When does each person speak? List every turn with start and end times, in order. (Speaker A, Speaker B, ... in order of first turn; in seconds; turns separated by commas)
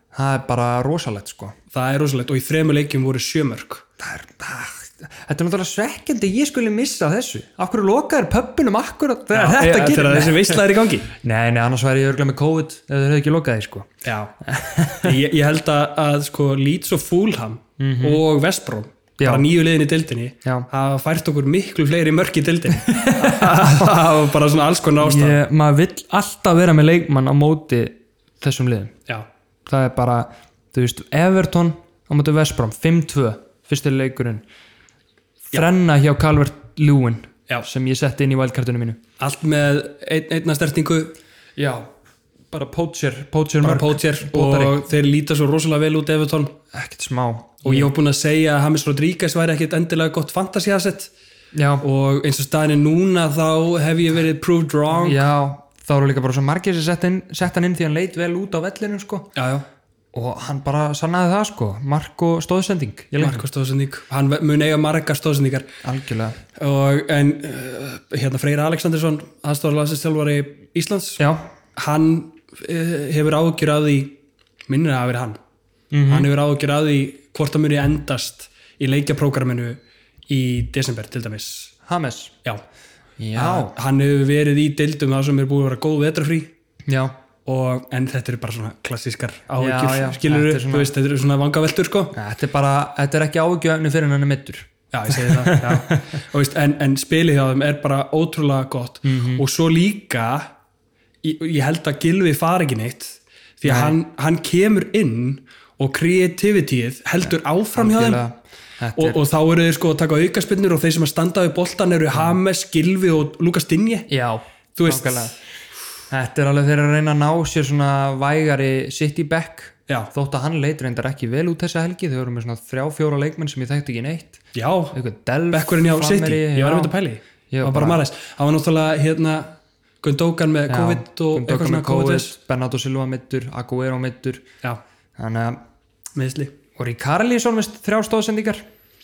Speaker A: 0.1-1.6, Speaker B: 1.7-3.8, Speaker A: 4.0-15.2, Speaker B: 9.3-11.1, Speaker B: 14.0-14.3, Speaker B: 15.0-25.4, Speaker A: 17.8-18.2, Speaker A: 19.2-19.4, Speaker A: 22.7-24.1, Speaker A: 25.0-29.0, Speaker A: 29.7-34.4, Speaker A: 35.5-39.0, Speaker B: 39.2-41.1, Speaker A: 41.6-41.9, Speaker A: 42.5-44.8, Speaker B: 43.6-46.5, Speaker A: 46.7-47.9, Speaker B: 47.6-51.1, Speaker A: 51.5-51.8, Speaker B: 51.8-55.2, Speaker A: 55.0-59.3, Speaker B: 59.4-59.6, Speaker A: 60.1-63.4, Speaker B: 63.2-65.7, Speaker A: 65.8-66.4, Speaker B: 66.5-71.2, Speaker A: 71.2-71.5, Speaker B: 71.8-75.4, Speaker A: 75.9-76.3, Speaker B: 76.1-81.7, Speaker A: 81.8-82.3, Speaker A: 83.2-83.7, Speaker B: 83.3-86.5, Speaker A: 86.9-87.1, Speaker B: 87.5-92.1, Speaker A: 89.6-90.9, Speaker A: 92.1-96.2, Speaker B: 94.9-100.5, Speaker A: 99.0-99.4, Speaker B: 101.2-108.2, Speaker A: 103.6-104.0, Speaker A: 107.2-109.2, Speaker B: 109.0-114.1, Speaker A: 114.1-115.4, Speaker B: 114.8-115.3, Speaker A: 116.1-126.9, Speaker B: 124.5-125.0, Speaker B: 125.5-132.3, Speaker A: 127.5-128.0, Speaker A: 130.7-134.4, Speaker A: 135.2-135.6, Speaker B: 136.2-136.5, Speaker A: 136.8-138.6